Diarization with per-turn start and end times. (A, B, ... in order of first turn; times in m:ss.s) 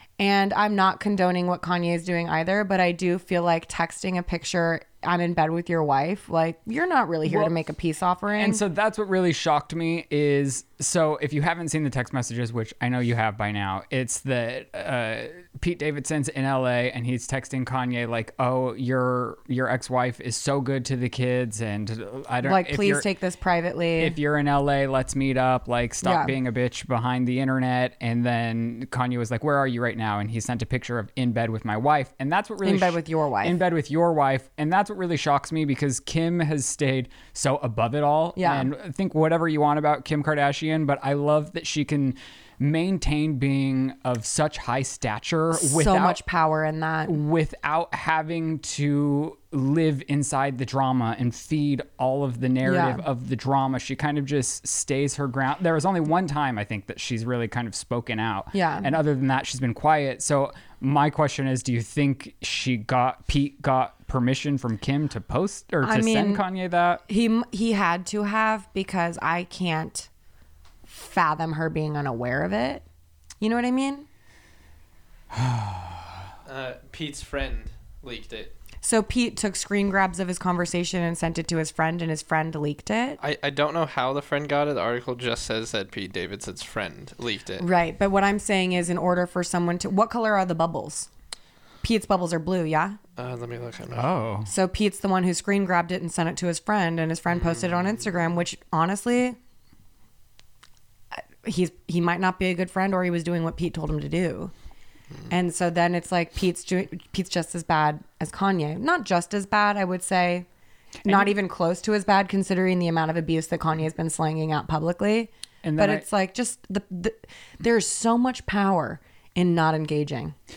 0:00.2-0:08.6 A
0:07.2-0:07.5 B
0:08.3-0:23.0 B
0:22.4-0:24.2 A
0:24.0-0:46.2 B
0:26.0-0:26.3 A
0:32.6-0:33.6 A
0:38.4-0:38.7 A
0:45.5-0:47.2 A
0:47.0-1:07.0 B
0:52.6-0:53.0 A
0:58.5-0:58.9 A
1:05.8-1:06.4 A
1:07.1-1:10.1 A
1:10.8-1:12.8 A
1:13.4-1:14.0 A
1:15.3-1:16.1 B
1:16.4-1:18.5 C
1:18.8-1:23.2 A
1:23.2-1:27.6 C
1:27.6-1:31.1 A
1:31.8-1:33.0 A
1:33.2-1:34.1 C
1:33.9-1:34.5 B
1:34.5-1:39.4 A
1:41.1-1:44.5 A
1:45.3-1:50.4 A
1:51.0-1:51.3 B
1:51.0-2:00.3 A
1:55.6-1:56.0 B